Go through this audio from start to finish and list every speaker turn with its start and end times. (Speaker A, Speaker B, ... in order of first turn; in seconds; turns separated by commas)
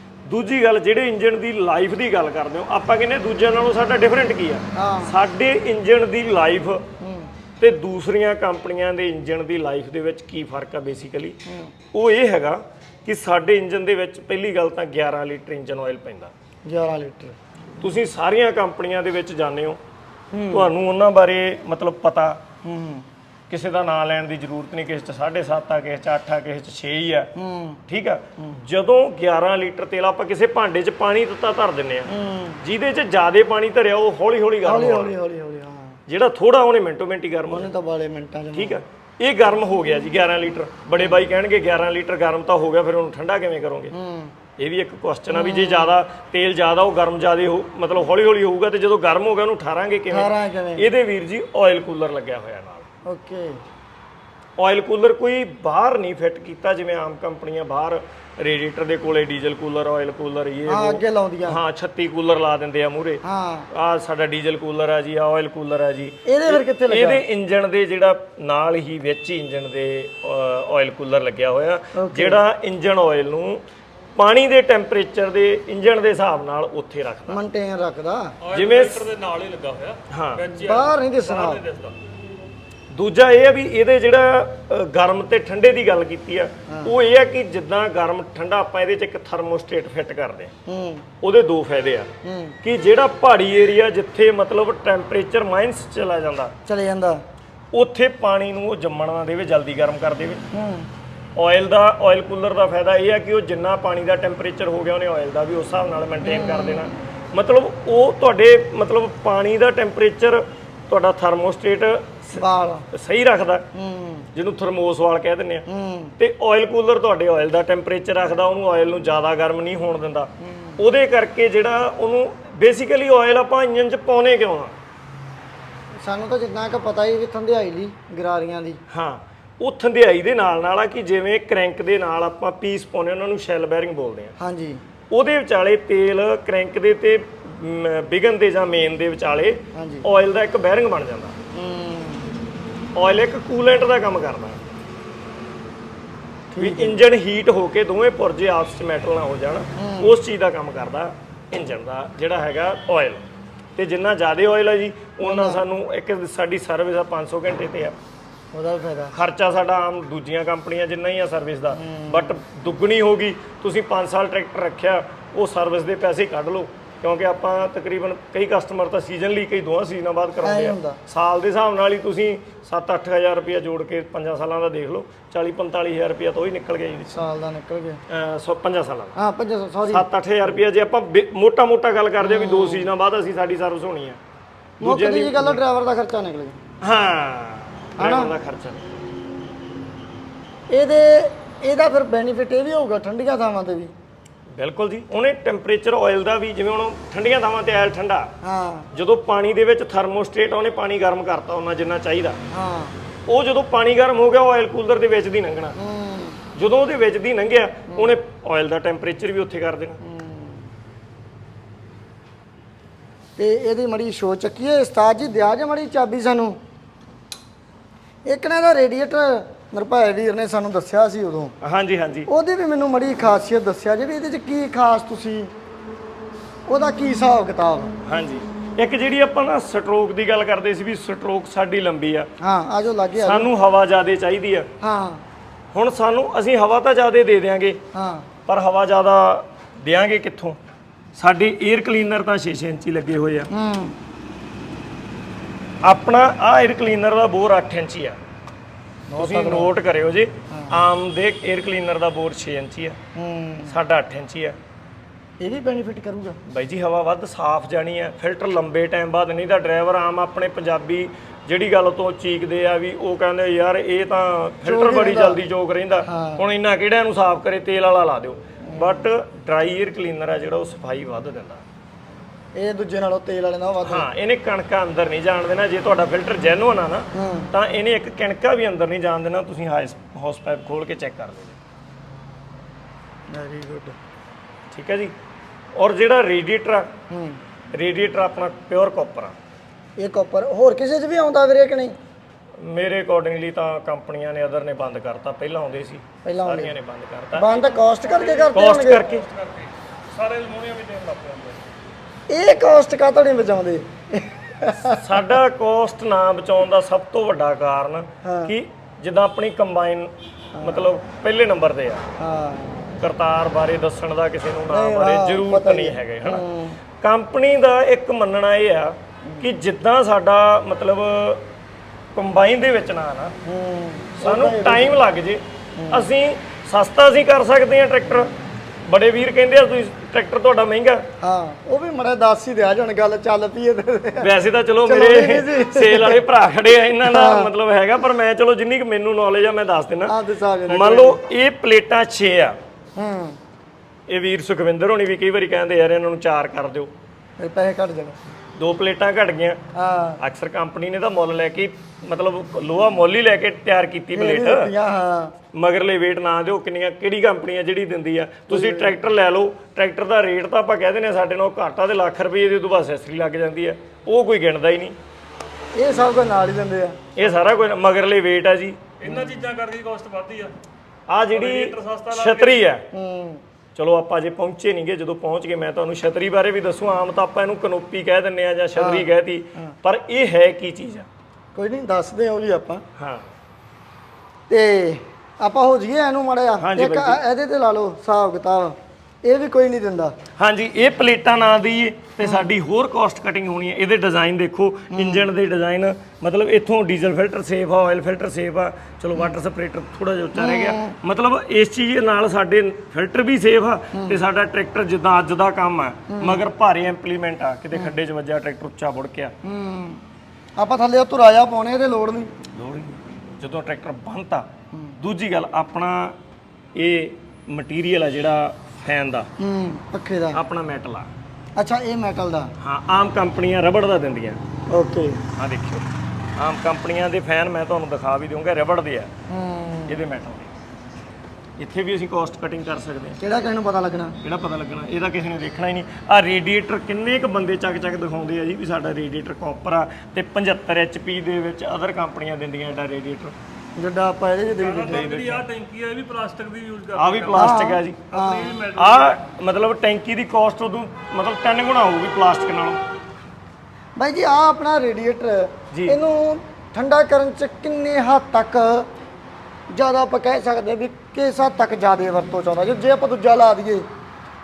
Speaker A: 0.2-6.8, Speaker B: 4.7-5.2, Speaker B: 7.0-7.3, Speaker A: 7.6-11.4, Speaker B: 11.4-11.7, Speaker A: 11.9-16.3, Speaker B: 16.6-17.4, Speaker A: 17.8-19.8, Speaker B: 20.3-20.7, Speaker A: 20.5-22.4, Speaker B: 22.6-23.1, Speaker A: 23.5-27.3, Speaker B: 27.4-27.8, Speaker A: 27.9-32.1, Speaker B: 32.0-32.6, Speaker A: 32.6-35.1, Speaker B: 34.6-36.0, Speaker A: 36.1-37.7, Speaker B: 37.5-38.8, Speaker A: 38.5-43.9, Speaker B: 41.0-41.2, Speaker B: 43.9-44.3, Speaker A: 44.6-52.8, Speaker B: 45.3-46.0, Speaker B: 50.1-50.9, Speaker B: 53.1-53.6, Speaker A: 54.6-73.6, Speaker B: 60.7-61.6, Speaker B: 63.2-63.7, Speaker B: 66.2-67.2, Speaker B: 71.9-72.4, Speaker A: 74.2-77.4, Speaker B: 77.3-78.3, Speaker C: 78.4-82.0, Speaker A: 78.5-79.1, Speaker A: 80.1-80.5, Speaker B: 80.5-81.6, Speaker A: 82.9-90.5, Speaker B: 90.7-91.0, Speaker A: 91.2-92.1, Speaker B: 92.2-92.6, Speaker A: 92.6-96.5, Speaker B: 96.7-97.2, Speaker A: 97.7-100.4, Speaker B: 100.5-100.9, Speaker A: 101.3-113.6, Speaker B: 106.2-106.9, Speaker B: 112.3-112.8, Speaker B: 113.7-114.2, Speaker A: 114.3-115.7, Speaker B: 115.7-116.2, Speaker A: 116.2-124.8, Speaker B: 120.4-120.8, Speaker B: 126.0-128.8, Speaker A: 128.9-134.3, Speaker B: 134.4-134.8, Speaker A: 135.1-141.4, Speaker B: 139.7-140.1, Speaker B: 141.5-142.3, Speaker A: 142.9-144.6, Speaker B: 146.5-147.0, Speaker A: 146.6-153.2, Speaker B: 149.8-150.2, Speaker A: 153.8-157.9, Speaker B: 155.2-155.6, Speaker B: 158.5-159.1, Speaker A: 159.1-177.2, Speaker B: 161.7-162.4, Speaker B: 170.4-171.0, Speaker B: 177.1-178.0, Speaker A: 178.1-179.2, Speaker B: 179.1-180.1, Speaker A: 179.9-184.2, Speaker B: 182.2-182.9, Speaker B: 184.8-186.6, Speaker A: 184.8-185.6, Speaker A: 186.8-188.9, Speaker B: 188.0-188.3, Speaker B: 190.7-193.9, Speaker A: 194.5-198.3, Speaker B: 198.4-198.9, Speaker A: 198.9-202.4, Speaker B: 202.5-203.0, Speaker A: 203.3-205.8, Speaker B: 205.8-206.4, Speaker A: 206.5-210.0, Speaker B: 210.0-210.7, Speaker B: 213.4-216.6, Speaker B: 218.2-221.5, Speaker A: 221.6-222.3, Speaker B: 222.3-225.5, Speaker B: 226.7-227.9, Speaker A: 228.0-232.3, Speaker B: 232.4-233.5, Speaker A: 233.2-234.7, Speaker B: 234.8-235.2, Speaker A: 235.7-237.8, Speaker B: 237.9-238.2, Speaker A: 238.5-240.6, Speaker A: 241.2-243.5, Speaker B: 243.5-243.9, Speaker A: 245.8-248.2, Speaker B: 249.1-249.7, Speaker A: 249.2-253.0, Speaker B: 250.5-250.8, Speaker B: 253.1-253.7, Speaker A: 253.7-254.6, Speaker B: 255.4-256.4, Speaker A: 256.4-271.6, Speaker B: 264.6-265.4, Speaker B: 266.1-266.4, Speaker B: 268.6-269.1, Speaker B: 272.5-274.1, Speaker A: 273.8-281.6, Speaker B: 277.1-277.5, Speaker B: 283.3-283.9, Speaker A: 284.7-285.1, Speaker A: 285.8-286.9, Speaker B: 287.1-287.4, Speaker A: 287.7-289.3, Speaker B: 290.0-292.0, Speaker A: 292.6-297.6, Speaker B: 296.2-296.7, Speaker B: 297.3-299.1, Speaker C: 297.8-298.6, Speaker A: 298.5-299.2, Speaker C: 299.1-301.6, Speaker B: 302.3-305.2, Speaker A: 304.8-312.0, Speaker B: 308.2-308.5, Speaker B: 310.6-310.9, Speaker B: 312.2-312.9, Speaker A: 312.9-316.4, Speaker B: 314.7-316.8, Speaker A: 317.0-321.4, Speaker B: 319.3-319.5, Speaker A: 322.1-323.4, Speaker B: 323.4-325.0, Speaker A: 324.2-328.3, Speaker B: 325.8-326.1, Speaker A: 328.9-331.0, Speaker B: 331.2-334.3, Speaker A: 334.2-340.1, Speaker B: 334.8-336.2, Speaker B: 337.0-337.5, Speaker B: 340.1-341.2, Speaker A: 340.7-342.6, Speaker B: 343.0-343.4, Speaker A: 344.1-346.9, Speaker B: 347.4-348.2, Speaker A: 348.6-349.6, Speaker B: 349.7-350.2, Speaker A: 350.2-354.7, Speaker B: 354.1-355.3, Speaker A: 355.5-365.0, Speaker B: 358.5-358.9, Speaker B: 365.8-367.0, Speaker A: 367.1-368.9, Speaker C: 369.0-370.5, Speaker B: 369.0-369.5, Speaker A: 371.1-372.8, Speaker C: 371.3-372.6, Speaker B: 372.9-373.4, Speaker A: 373.8-381.1, Speaker B: 378.8-379.7, Speaker B: 381.5-382.8, Speaker A: 383.0-383.3, Speaker B: 384.5-390.1, Speaker A: 386.6-387.2, Speaker A: 390.4-409.3, Speaker B: 392.2-392.5, Speaker B: 394.9-395.3, Speaker B: 400.4-400.9, Speaker B: 403.9-404.2, Speaker B: 406.1-406.4, Speaker B: 409.4-410.0, Speaker B: 410.6-412.3, Speaker A: 412.5-414.5, Speaker A: 415.0-416.1, Speaker A: 416.8-419.3, Speaker B: 419.4-420.4, Speaker A: 420.3-421.1, Speaker B: 421.6-422.5, Speaker A: 422.6-424.4, Speaker B: 424.7-425.2, Speaker A: 425.4-429.1, Speaker B: 429.3-430.0, Speaker A: 429.9-430.5, Speaker A: 431.6-433.2, Speaker B: 433.2-434.2, Speaker A: 434.2-443.3, Speaker B: 443.8-445.1, Speaker C: 444.6-447.6, Speaker A: 444.8-445.5, Speaker A: 446.9-448.1, Speaker B: 447.3-448.6, Speaker C: 448.1-449.2, Speaker A: 448.8-452.8, Speaker B: 454.0-458.9, Speaker A: 455.7-456.0, Speaker B: 459.7-463.9